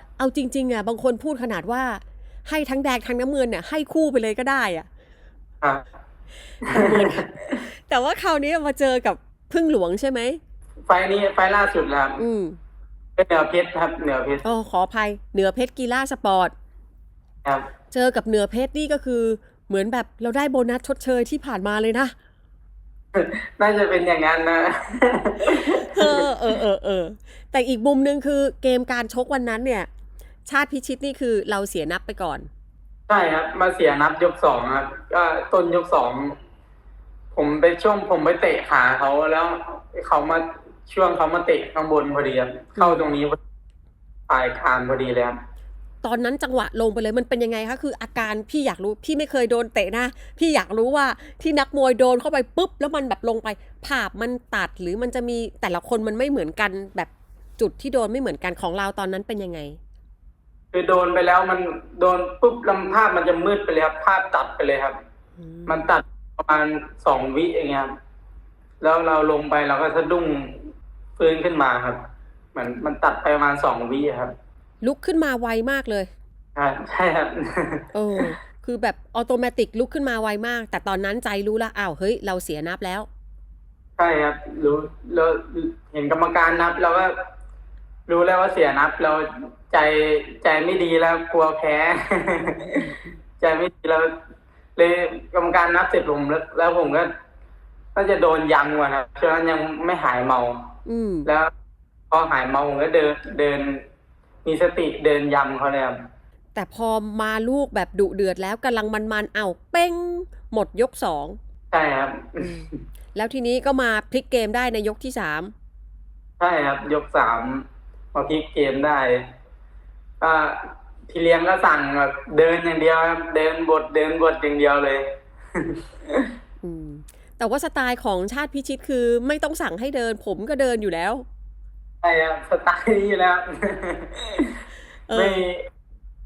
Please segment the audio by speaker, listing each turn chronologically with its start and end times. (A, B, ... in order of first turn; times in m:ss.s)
0:00.2-0:04.9 A
0:06.6-0:07.2 B
0:06.6-0:10.4 A
0:10.9-0:12.2 B
0:12.2-0:12.6 A
0:13.2-0:14.4 B
0:14.4-0:16.5 A
0:17.9-0:22.1 A
0:23.1-0:26.3 B
0:25.6-0:29.9 A
0:30.4-0:32.5 A
0:33.1-0:36.4 B
0:37.3-0:43.4 B
0:42.8-0:43.1 A
0:44.3-0:45.4 B
0:46.0-0:59.8 A
1:00.7-1:05.0 B
1:05.4-1:05.9 A
1:05.7-1:07.9 B
1:08.8-1:12.0 B
1:12.5-1:14.3 B
1:14.8-1:16.1 A
1:16.6-1:17.8 B
1:17.9-1:23.1 A
1:24.0-1:27.1 B
1:28.1-1:34.2 B
1:34.8-1:37.1 B
1:37.9-1:40.7 B
1:40.8-1:41.3 A
1:41.2-1:41.5 B
1:42.1-1:43.8 B
1:44.4-1:46.0 B
1:46.6-1:51.4 A
1:51.7-1:52.8 B
1:52.4-1:55.5 A
1:56.4-1:59.2 B
2:00.2-2:06.3 B
2:06.6-2:11.2 A
2:12.0-2:14.6 B
2:15.1-2:15.4 A
2:15.1-2:15.6 B